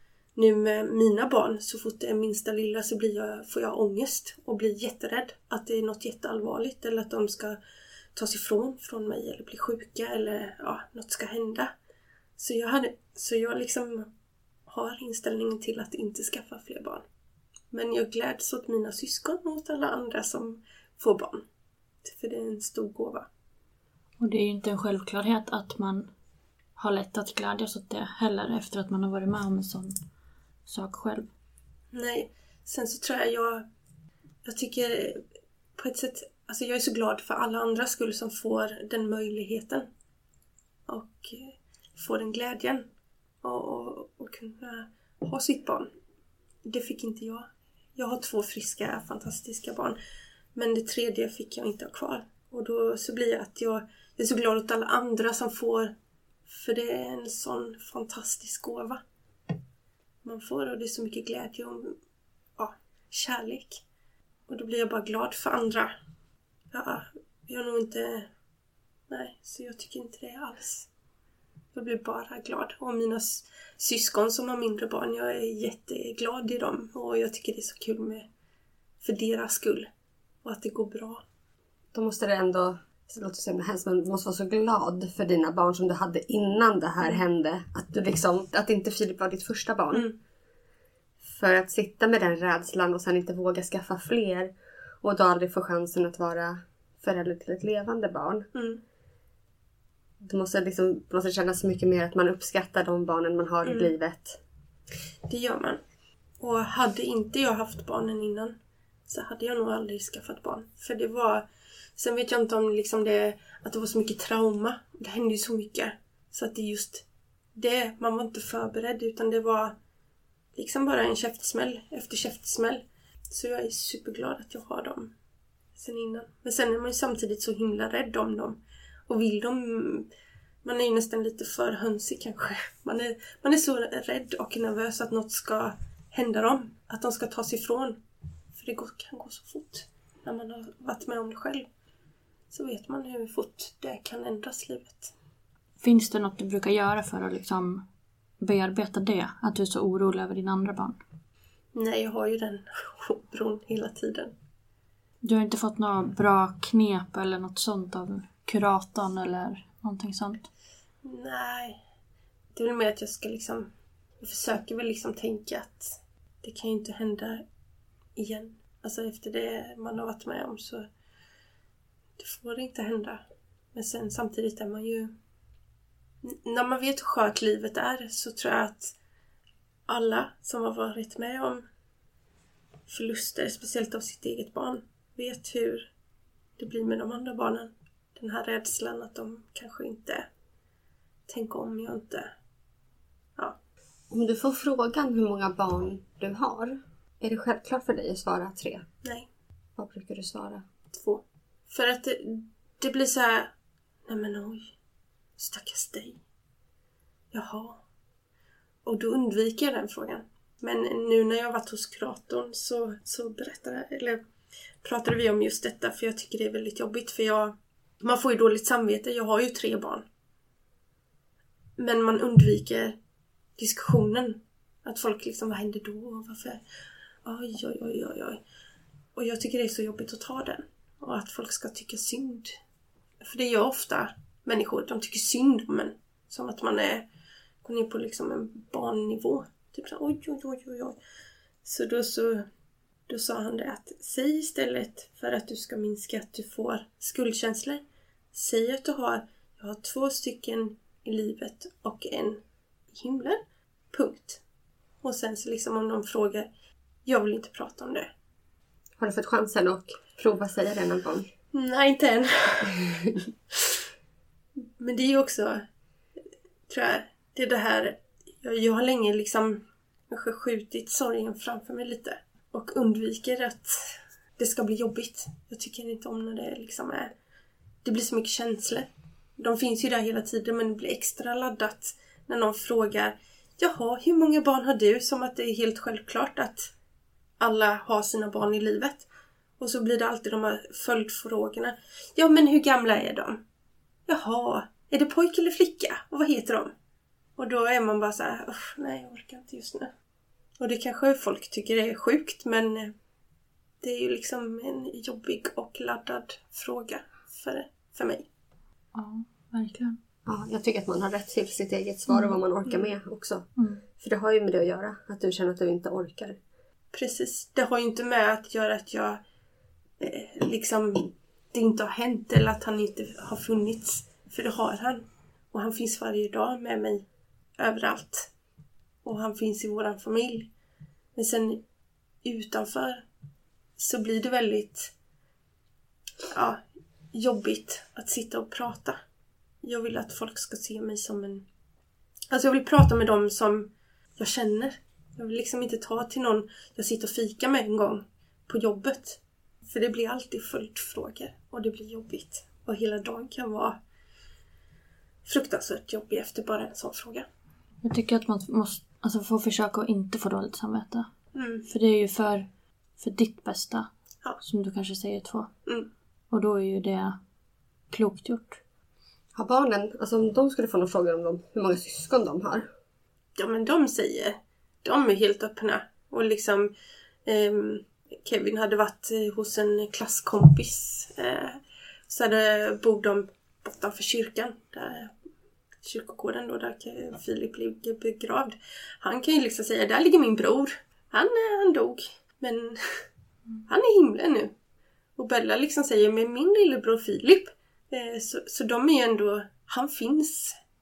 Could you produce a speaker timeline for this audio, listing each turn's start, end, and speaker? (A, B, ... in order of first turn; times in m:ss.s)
0:00.4-0:07.6 A
0:08.2-0:11.7 A
0:12.4-0:14.1 A
0:14.7-0:17.0 A
0:17.7-0:21.4 A
0:22.0-0:23.3 A
0:24.2-0:26.1 B
0:26.8-0:29.9 B
0:30.7-0:31.3 B
0:31.9-0:33.7 A
0:34.4-0:35.2 A
0:35.8-0:39.9 A
0:40.9-0:42.9 A
0:43.4-0:45.9 A
0:46.6-0:50.0 A
0:50.6-0:55.9 A
0:56.5-0:59.0 A
1:00.2-1:02.0 A
1:02.6-1:03.8 A
1:04.5-1:05.9 A
1:06.7-1:08.3 A
1:09.1-1:10.9 A
1:11.7-1:18.3 A
1:19.0-1:19.9 A
1:20.4-1:21.2 A
1:21.9-1:30.1 C
1:31.2-1:38.5 C
1:38.6-1:38.8 A
1:40.2-1:44.4 C
1:43.6-1:43.9 A
1:45.3-1:45.8 A
1:46.4-1:48.6 A
1:49.1-1:51.5 A
1:52.0-1:57.0 A
1:57.6-1:59.8 A
2:00.6-2:05.1 A
2:05.8-2:10.1 A
2:10.6-2:18.0 A
2:18.6-2:21.7 A
2:22.5-2:25.1 A
2:25.8-2:27.8 B
2:28.4-2:31.0 B
2:31.7-2:34.3 A
2:35.2-2:40.5 B
2:41.0-2:41.8 A
2:42.5-2:47.4 A
2:48.2-2:50.9 A
2:52.2-2:53.2 A
2:53.8-2:55.1 A
2:56.2-2:58.9 A
2:59.9-3:01.6 A
3:02.9-3:05.9 A
3:06.6-3:10.3 A
3:11.3-3:12.3 A
3:14.1-3:18.9 C
3:19.8-3:20.6 C
3:20.9-3:23.5 A
3:24.1-3:24.7 A
3:25.4-3:26.2 A
3:27.3-3:27.8 A
3:28.8-3:34.2 A
3:34.8-3:40.0 A
3:41.8-3:43.0 A
3:43.6-3:46.6 A
3:47.2-3:48.4 A
3:49.2-3:52.5 A
3:53.2-3:57.1 A
3:57.6-4:01.0 A
4:01.6-4:02.5 A
4:03.1-4:07.8 A
4:08.3-4:12.4 A
4:12.9-4:13.4 A
4:13.9-4:14.4 A
4:15.0-4:16.5 A
4:17.0-4:18.1 A
4:19.0-4:21.3 C
4:21.5-4:23.0 A
4:22.8-4:23.1 C
4:24.8-4:25.6 A
4:26.7-4:37.1 A
4:37.8-4:46.7 A
4:47.4-4:49.1 A
4:49.6-4:53.4 A
4:54.1-4:56.7 A
4:57.4-4:59.9 A
5:00.6-5:02.9 A
5:03.8-5:08.3 A
5:08.9-5:10.0 B
5:10.3-5:16.4 C
5:13.6-5:13.8 B
5:16.9-5:19.2 A
5:20.0-5:27.0 A
5:27.6-5:28.3 A
5:29.0-5:30.5 A
5:31.2-5:31.6 A
5:32.2-5:33.0 A
5:33.8-5:34.9 A
5:36.3-5:36.6 A
5:37.1-5:39.0 A
5:39.6-5:41.5 A
5:42.3-5:53.8 A
5:55.2-5:57.3 A
5:57.8-6:01.1 B
6:01.4-6:01.7 A
6:01.7-6:03.9 B
6:04.4-6:05.5 B
6:06.3-6:07.2 B
6:07.9-6:08.6 B
6:09.4-6:12.7 C
6:13.4-6:16.7 A
6:17.3-6:25.1 A
6:25.8-6:33.0 A
6:33.7-6:34.5 A
6:35.2-6:40.6 A